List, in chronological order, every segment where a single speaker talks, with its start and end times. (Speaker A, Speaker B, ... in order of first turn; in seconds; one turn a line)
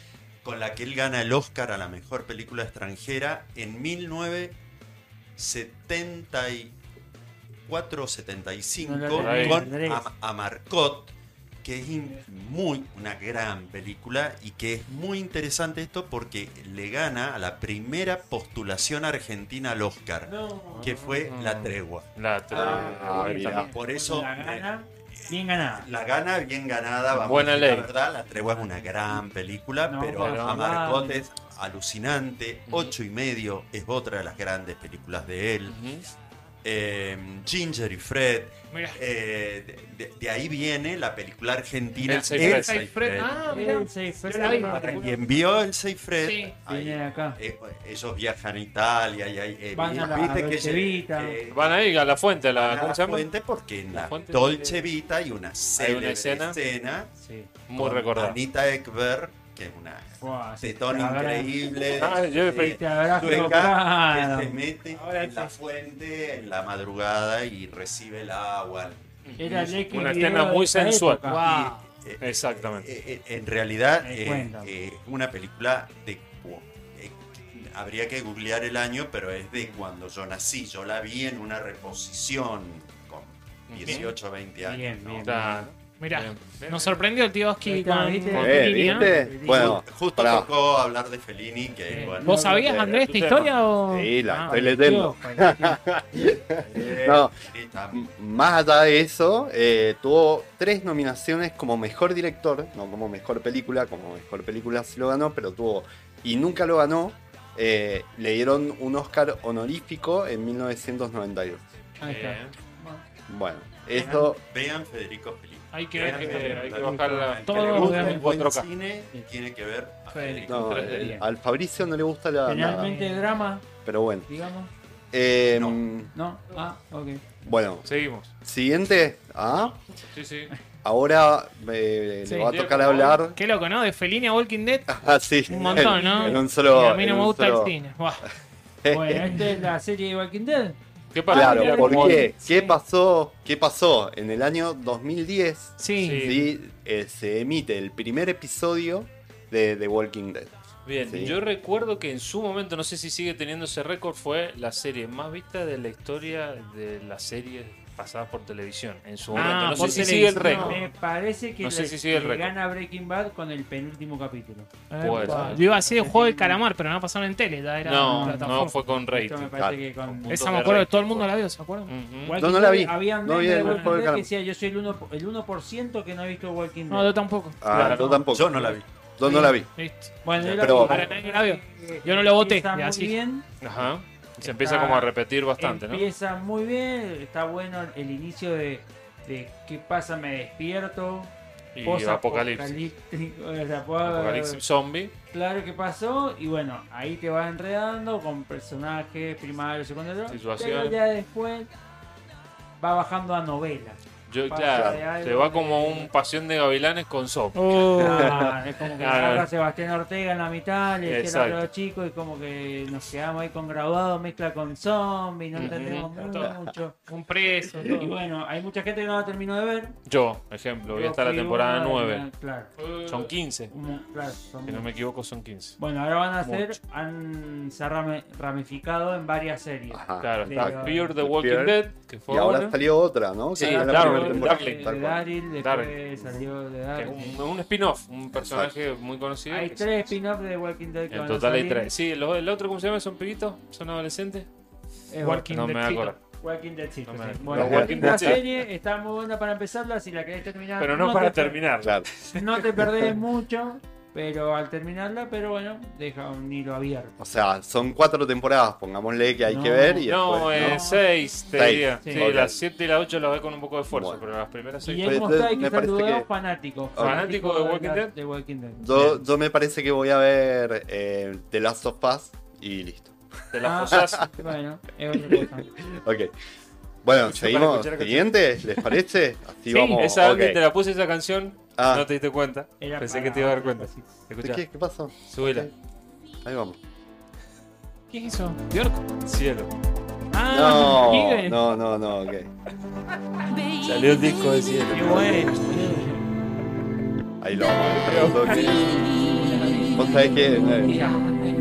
Speaker A: 0.4-4.6
Speaker A: 5.3-6.8
Speaker A: 7.7-24.7
Speaker B: 8.8-10.1
Speaker C: 9.1-9.7
Speaker B: 20.2-21.1
Speaker C: 20.8-23.7
Speaker D: 22.5-23.7
Speaker B: 23.1-25.9
Speaker A: 25.3-35.8
Speaker C: 27.1-27.9
Speaker B: 29.8-31.2
Speaker C: 30.2-30.8
Speaker C: 32.7-32.9
Speaker C: 35.7-36.0
Speaker A: 36.6-43.6
Speaker E: 38.7-39.0
Speaker C: 42.0-42.8
Speaker E: 42.3-45.1
Speaker B: 43.5-45.1
Speaker A: 44.4-51.9
Speaker E: 46.2-46.5
Speaker B: 46.7-47.4
Speaker B: 49.7-51.4
Speaker C: 51.5-53.3
Speaker A: 52.5-57.1
Speaker C: 53.9-54.9
Speaker C: 55.7-56.6
Speaker B: 57.2-57.5
Speaker C: 57.7-58.4
Speaker A: 57.7-69.8
Speaker B: 60.2-61.5
Speaker C: 62.0-63.7
Speaker B: 62.5-65.5
Speaker C: 69.2-71.4
Speaker B: 69.4-71.4
Speaker E: 71.3-71.8
Speaker A: 71.4-85.6
Speaker C: 72.2-72.9
Speaker B: 74.0-74.7
Speaker C: 83.7-84.1
Speaker B: 84.6-85.4
Speaker C: 85.2-87.0
Speaker E: 86.0-89.1
Speaker B: 87.6-89.8
Speaker D: 88.4-90.5
Speaker A: 89.4-92.5
Speaker B: 91.9-92.7
Speaker E: 92.2-94.5
Speaker D: 92.6-93.3
Speaker C: 93.0-93.5
Speaker D: 93.9-97.3
Speaker B: 94.5-95.8
Speaker A: 96.6-98.0
Speaker D: 97.9-111.7
Speaker B: 112.0-113.0
Speaker C: 112.0-112.5
Speaker D: 113.3-114.4
Speaker B: 113.9-114.3
Speaker A: 114.3-121.1
Speaker E: 115.7-116.9
Speaker C: 116.0-118.7
Speaker B: 116.3-117.0
Speaker E: 117.4-118.3
Speaker B: 117.8-118.2
Speaker E: 120.1-120.5
Speaker D: 120.5-122.9
Speaker C: 120.5-121.1
Speaker B: 120.9-121.2
Speaker B: 122.4-123.7
Speaker E: 122.8-123.3
Speaker D: 123.8-124.3
Speaker B: 124.3-124.7
Speaker D: 125.1-126.1
Speaker A: 125.5-125.8
Speaker B: 126.1-127.4
Speaker D: 127.4-127.9
Speaker C: 127.8-128.3
Speaker D: 128.4-129.8
Speaker C: 130.1-130.5
Speaker D: 130.8-133.4
Speaker C: 132.4-133.2
Speaker E: 133.3-134.9
Speaker D: 134.9-137.7
Speaker E: 135.5-138.2
Speaker B: 135.7-136.4
Speaker D: 138.8-139.4
Speaker B: 138.9-140.8
Speaker C: 141.1-142.3
Speaker B: 141.3-142.3
Speaker D: 141.3-151.4
Speaker E: 141.5-142.7
Speaker E: 145.8-146.3
Speaker C: 146.0-146.5
Speaker C: 150.8-160.8
Speaker E: 159.3-160.8
Speaker B: 159.7-166.6
Speaker C: 161.6-162.5
Speaker E: 164.9-168.8
Speaker C: 165.0-165.7
Speaker C: 167.8-169.6
Speaker B: 168.0-170.4
Speaker C: 170.2-171.3
Speaker E: 170.3-171.9
Speaker C: 171.9-172.4
Speaker B: 172.2-177.1
Speaker D: 172.3-174.3
Speaker E: 173.6-173.9
Speaker E: 176.9-178.1
Speaker D: 177.6-179.7
Speaker C: 177.7-178.2
Speaker A: 178.3-178.9
Speaker B: 179.2-179.5
Speaker E: 179.3-183.2
Speaker B: 180.2-183.4
Speaker D: 180.4-181.1
Speaker C: 183.6-186.1
Speaker B: 184.4-194.6
Speaker C: 191.7-192.8
Speaker C: 194.0-195.1
Speaker B: 195.3-201.7
Speaker C: 200.3-201.0
Speaker B: 202.8-206.1
Speaker C: 204.3-208.3
Speaker D: 204.7-205.0
Speaker E: 207.5-208.4
Speaker B: 207.9-216.9
Speaker C: 209.0-209.5
Speaker C: 211.0-211.6
Speaker C: 215.5-216.5
Speaker E: 217.1-218.1
Speaker B: 217.8-219.9
Speaker C: 220.1-222.2
Speaker B: 220.9-222.7
Speaker C: 223.0-223.7
Speaker B: 223.7-224.9
Speaker C: 224.7-225.8
Speaker B: 225.8-231.1
Speaker C: 226.4-226.8
Speaker D: 229.9-235.2
Speaker C: 230.2-232.7
Speaker C: 233.5-234.9
Speaker B: 233.6-237.3
Speaker C: 235.6-235.9
Speaker C: 236.9-239.9
Speaker D: 238.3-238.7
Speaker B: 239.5-241.9
Speaker C: 241.1-244.5
Speaker B: 245.1-245.5
Speaker E: 245.2-246.1
Speaker C: 245.5-246.2
Speaker B: 246.4-251.6
Speaker C: 247.1-248.4
Speaker D: 247.5-248.4
Speaker C: 250.8-252.4
Speaker B: 252.3-257.2
Speaker D: 257.2-260.8
Speaker B: 259.5-261.0
Speaker C: 260.0-265.4
Speaker D: 261.5-262.6
Speaker B: 262.0-262.3
Speaker D: 263.9-264.2
Speaker B: 264.8-269.2
Speaker D: 265.0-266.3
Speaker D: 266.9-267.3
Speaker C: 267.0-268.1
Speaker D: 268.8-273.2
Speaker C: 273.5-274.3
Speaker B: 273.6-275.7
Speaker D: 273.9-274.2
Speaker D: 275.3-276.3
Speaker D: 277.0-280.6
Speaker C: 277.2-278.4
Speaker E: 279.7-280.0
Speaker C: 280.0-284.6
Speaker D: 281.8-282.1
Speaker B: 282.8-284.1
Speaker D: 284.4-285.7
Speaker C: 285.3-285.7
Speaker D: 286.4-286.8
Speaker E: 288.1-289.0
Speaker C: 289.2-289.7
Speaker E: 290.3-291.6
Speaker D: 290.5-292.5
Speaker C: 293.8-295.5
Speaker E: 294.9-296.1
Speaker D: 297.4-298.9
Speaker C: 298.1-298.7
Speaker B: 299.3-301.2
Speaker D: 299.9-301.0